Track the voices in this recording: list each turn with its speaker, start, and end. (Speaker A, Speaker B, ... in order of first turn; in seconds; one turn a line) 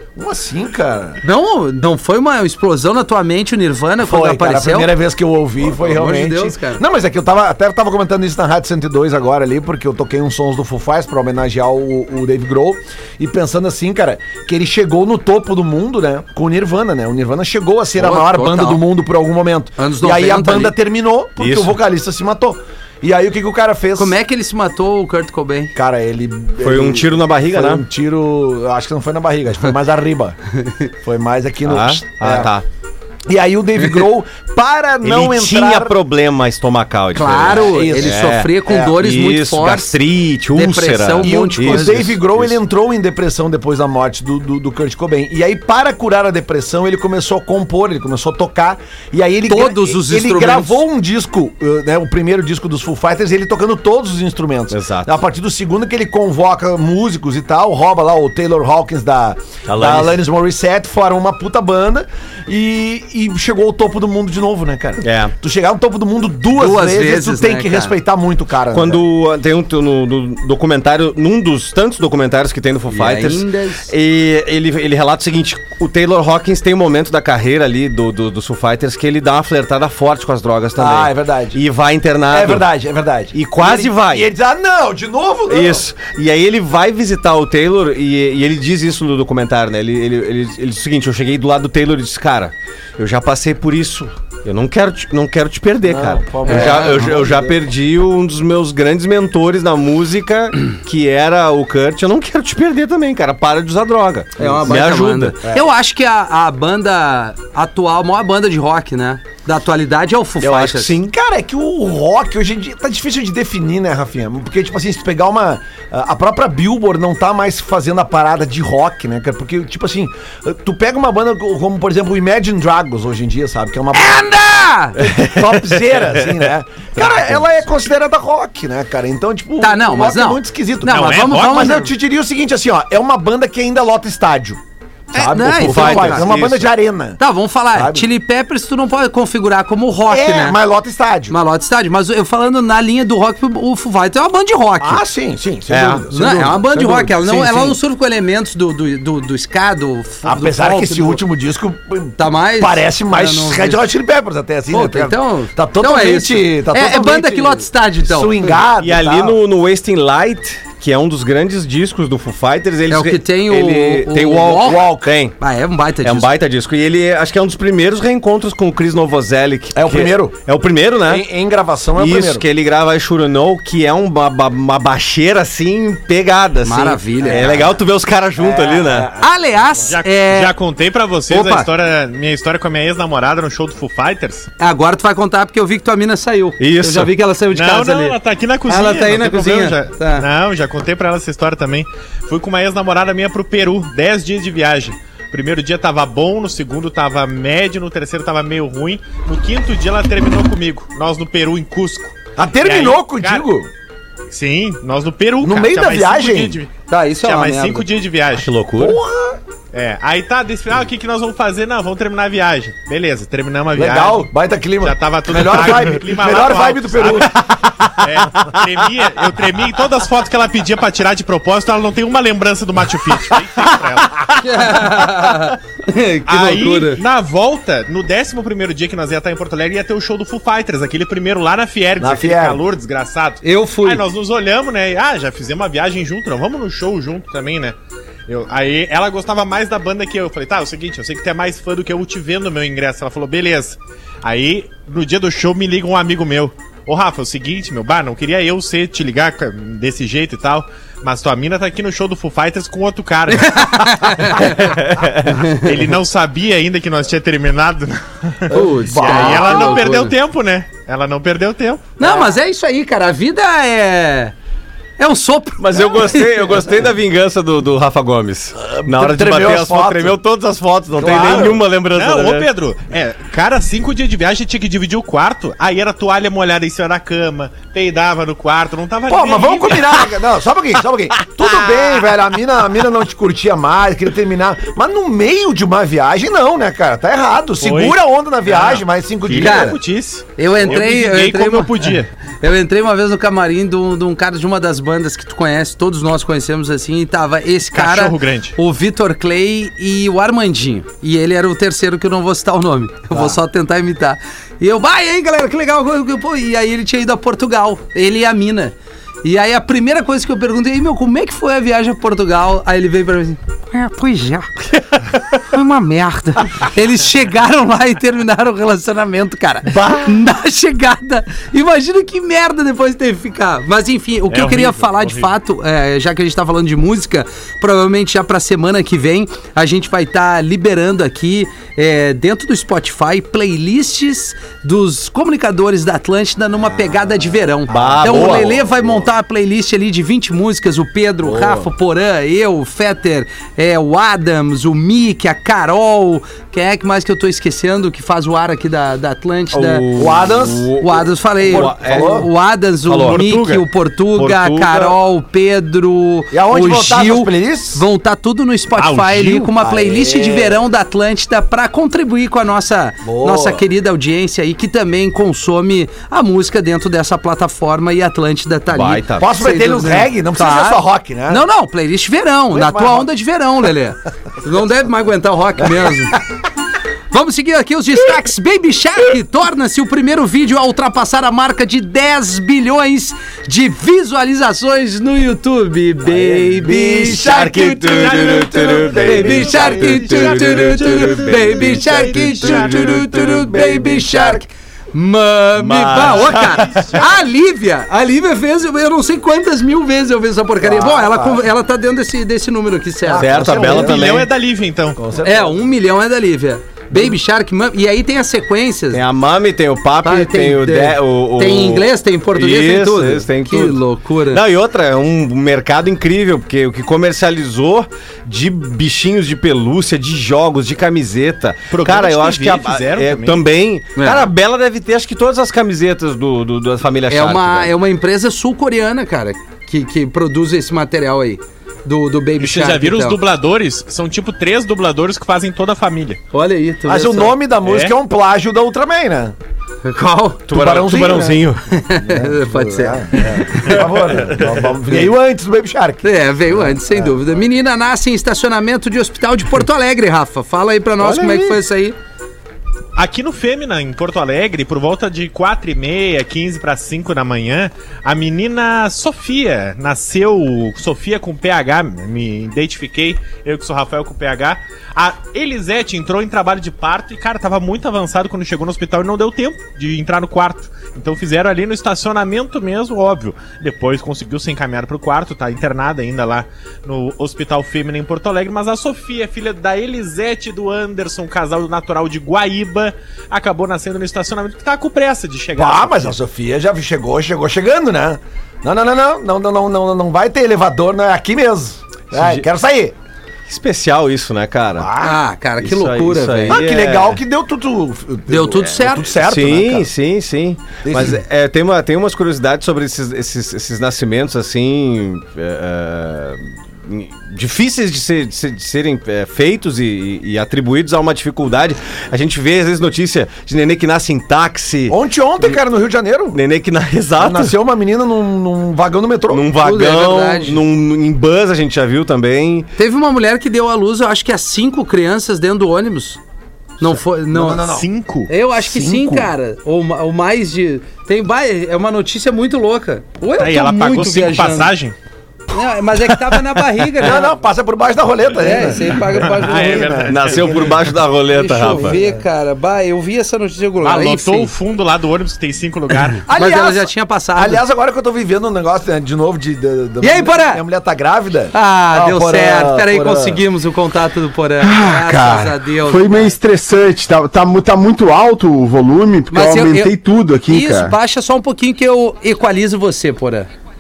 Speaker A: 0.2-1.2
Speaker B: 1.2-5.0
Speaker A: 4.0-24.1
Speaker B: 5.7-6.8
Speaker B: 18.0-18.8
Speaker B: 19.8-20.7
Speaker C: 21.4-21.7
Speaker B: 24.0-25.7
Speaker A: 25.8-30.4
Speaker C: 26.6-27.8
Speaker A: 30.9-32.5
Speaker C: 31.7-32.6
Speaker A: 33.3-35.9
Speaker C: 35.0-42.6
Speaker B: 37.1-40.0
Speaker A: 37.3-39.0
Speaker B: 40.5-41.9
Speaker A: 41.2-69.0
Speaker B: 49.5-50.8
Speaker C: 54.7-55.2
Speaker C: 59.7-60.2
Speaker C: 65.0-65.3
Speaker B: 66.5-68.0
Speaker C: 68.7-82.7
Speaker B: 72.9-73.9
Speaker A: 80.8-81.6
Speaker A: 82.3-85.8
Speaker C: 83.3-84.3
Speaker C: 85.5-105.4
Speaker A: 95.8-97.6
Speaker B: 96.5-97.1
Speaker B: 104.4-110.9
Speaker A: 105.4-105.7
Speaker C: 110.4-111.1
Speaker A: 110.9-124.3
Speaker B: 123.9-125.0
Speaker A: 125.0-134.6
Speaker C: 125.1-126.1
Speaker C: 127.0-127.4
Speaker B: 129.6-131.9
Speaker D: 130.9-131.7
Speaker B: 135.1-136.3
Speaker A: 135.1-137.2
Speaker C: 135.4-136.7
Speaker B: 137.2-140.6
Speaker A: 137.7-138.1
Speaker A: 140.1-141.4
Speaker B: 141.3-145.0
Speaker A: 144.8-147.8
Speaker C: 145.7-146.0
Speaker B: 146.1-151.2
Speaker A: 150.2-159.4
Speaker B: 152.2-153.8
Speaker B: 154.7-158.6
Speaker C: 158.8-165.3
Speaker B: 162.9-164.8
Speaker A: 164.6-165.1
Speaker B: 165.4-166.3
Speaker C: 166.0-171.2
Speaker A: 169.7-170.4
Speaker A: 171.0-172.5
Speaker C: 172.0-179.1
Speaker B: 176.7-177.6
Speaker A: 177.2-177.7
Speaker A: 178.4-179.3
Speaker B: 179.2-180.5
Speaker D: 179.9-184.5
Speaker B: 181.3-181.7
Speaker B: 184.6-188.2
Speaker C: 186.6-187.1
Speaker D: 187.5-203.5
Speaker B: 188.7-190.3
Speaker A: 202.4-203.7
Speaker D: 204.3-206.7
Speaker A: 205.4-206.6
Speaker B: 206.9-207.8
Speaker D: 207.2-208.5
Speaker C: 208.4-209.0
Speaker A: 208.8-209.4
Speaker D: 209.7-214.3
Speaker A: 213.8-218.1
Speaker D: 214.8-224.3
Speaker B: 224.4-227.0
Speaker D: 226.3-237.8
Speaker A: 232.0-232.6
Speaker B: 233.4-234.0
Speaker D: 238.3-254.7
Speaker B: 253.3-254.7
Speaker C: 254.6-255.4
Speaker D: 255.4-261.9
Speaker A: 258.5-259.9
Speaker B: 258.5-260.1
Speaker B: 262.0-264.3
Speaker A: 262.0-262.4
Speaker B: 265.0-266.7
Speaker C: 265.6-272.5
Speaker A: 268.6-270.2
Speaker A: 270.9-271.6
Speaker D: 271.1-280.1
Speaker A: 279.1-289.8
Speaker D: 287.6-292.1
Speaker B: 289.4-289.8
Speaker B: 290.4-349.9
Speaker D: 297.7-298.6
Speaker D: 324.3-325.3
Speaker C: 337.7-339.0
Speaker A: 337.7-338.6
Speaker A: 341.2-341.6
Speaker C: 349.5-352.3
Speaker A: 349.9-350.7
Speaker B: 350.8-376.2
Speaker A: 351.4-352.3
Speaker C: 352.9-353.6
Speaker D: 353.1-353.4
Speaker C: 354.1-355.0
Speaker A: 356.3-357.8
Speaker D: 358.8-359.5
Speaker A: 359.6-360.6
Speaker A: 363.0-363.6
Speaker C: 368.7-369.3
Speaker A: 369.2-371.4
Speaker A: 372.5-373.1
Speaker B: 377.1-387.5
Speaker A: 386.1-390.2
Speaker C: 386.7-394.1
Speaker D: 387.9-393.1
Speaker B: 389.0-403.6
Speaker A: 393.4-394.4
Speaker C: 395.6-396.9
Speaker D: 396.0-397.2
Speaker A: 400.6-401.5
Speaker A: 403.0-404.2
Speaker C: 403.2-404.3
Speaker D: 403.5-405.0
Speaker A: 405.0-405.6
Speaker B: 405.2-409.0
Speaker C: 408.9-427.7
Speaker B: 410.0-414.4
Speaker D: 421.7-423.4
Speaker B: 424.0-424.3
Speaker B: 427.1-433.2
Speaker D: 432.4-436.2
Speaker B: 436.3-437.4
Speaker A: 436.9-439.4
Speaker D: 437.6-437.9
Speaker B: 439.8-440.5
Speaker C: 440.5-441.6
Speaker A: 440.5-446.1
Speaker B: 441.7-443.8
Speaker C: 443.7-444.7
Speaker B: 446.0-452.0
Speaker A: 446.7-447.1
Speaker C: 451.0-451.6
Speaker D: 453.0-486.2
Speaker A: 485.6-492.9
Speaker C: 492.1-492.4
Speaker C: 493.5-494.9
Speaker A: 494.8-495.2
Speaker B: 495.0-496.6
Speaker C: 495.6-497.2
Speaker A: 496.5-499.9
Speaker B: 498.3-499.1
Speaker C: 499.2-515.0
Speaker A: 500.9-501.2
Speaker A: 514.9-516.4
Speaker C: 516.3-517.5
Speaker A: 517.2-519.5
Speaker C: 519.3-522.7
Speaker B: 519.6-520.6
Speaker B: 522.8-526.2
Speaker B: 526.8-527.6
Speaker A: 526.9-527.9
Speaker D: 527.6-528.3
Speaker B: 528.3-534.7
Speaker A: 528.6-529.3
Speaker D: 533.4-535.0
Speaker B: 535.5-537.3
Speaker A: 537.0-540.8
Speaker B: 538.4-540.1
Speaker D: 539.2-540.8
Speaker C: 540.1-542.0
Speaker B: 541.3-544.5
Speaker D: 543.8-546.2
Speaker B: 546.3-547.6
Speaker A: 546.3-553.4
Speaker B: 550.0-550.6
Speaker B: 551.5-556.4
Speaker E: 554.6-560.9
Speaker B: 559.3-560.0
Speaker B: 560.5-563.5